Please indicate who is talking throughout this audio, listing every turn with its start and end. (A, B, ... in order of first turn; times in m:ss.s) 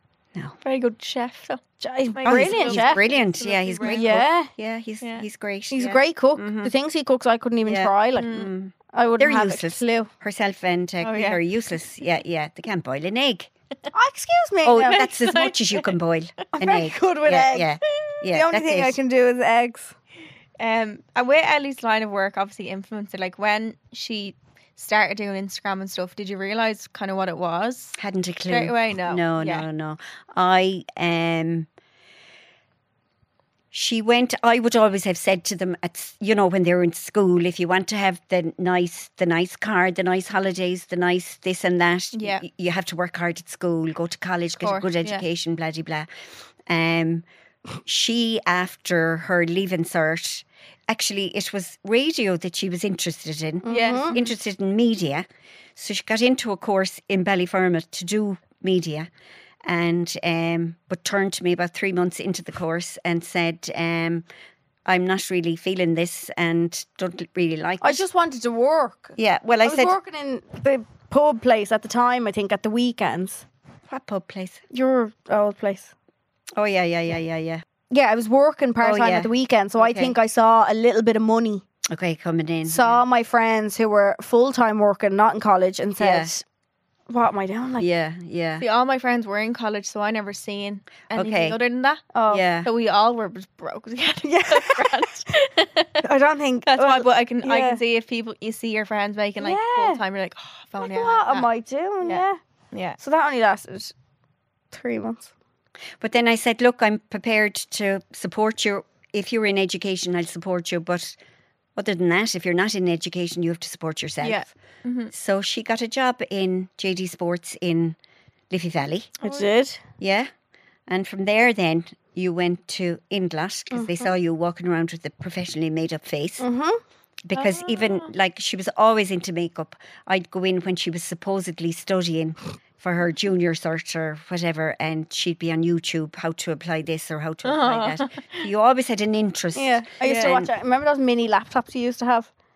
0:00.6-0:01.6 A
0:01.8-0:03.0 B
0:02.1-0:04.2 A
0:02.2-0:06.7 C
0:03.8-0:04.5 B
0:05.0-0:05.2 A
0:05.7-0:08.4 B
0:07.6-0:13.5 C
0:08.2-0:08.5 A
0:08.9-0:10.1 B
0:11.0-0:11.4 A
0:13.9-0:15.0 B
0:14.6-0:19.0 C
0:14.8-0:15.9 A
0:16.5-0:17.8 B
0:18.3-0:19.9 B
0:20.6-0:29.6 A
0:28.0-0:31.7 C
0:33.7-0:46.1 C
0:42.1-0:42.4 A
0:44.6-0:45.2 A
0:46.7-0:47.2 C
0:47.8-0:59.1 C
0:53.6-0:54.2 B
0:53.7-0:54.3 A
0:59.6-1:04.2 C
1:04.8-1:08.0 C
1:07.8-1:13.4 B
1:09.2-1:10.0 C
1:13.9-1:14.6 C
1:14.7-1:15.9 B
1:16.6-1:17.6 C
1:17.9-1:21.6 B
1:18.8-1:20.1 C
1:21.9-1:23.0 C
1:22.6-1:26.4 B
1:26.0-1:26.3 C
1:27.1-1:27.9 B
1:27.8-1:28.6 C
1:28.6-1:32.0 A
1:31.1-1:31.6 C
1:32.1-1:32.4 B
1:32.3-1:32.7 C
1:32.6-1:36.0 A
1:34.2-1:35.1 B
1:36.0-1:37.8 B
1:36.6-1:41.5 A
1:39.4-1:40.0 B
1:40.8-1:42.4 B
1:42.0-1:43.0 A
1:43.0-1:43.9 B
1:44.7-1:45.3 B
1:46.0-1:51.2 C
1:51.8-1:54.5 C
1:54.2-1:55.1 A
1:55.1-1:58.0 C
1:58.5-1:59.2 C
1:59.2-1:59.4 A
1:59.2-1:59.8 B
2:00.0-2:00.3 C
2:00.9-2:06.4 C
2:03.7-2:04.0 B
2:06.4-2:06.8 B
2:07.2-2:20.5 C
2:07.3-2:08.1 A
2:17.4-2:18.5 A
2:19.5-2:22.3 B
2:20.0-2:20.3 A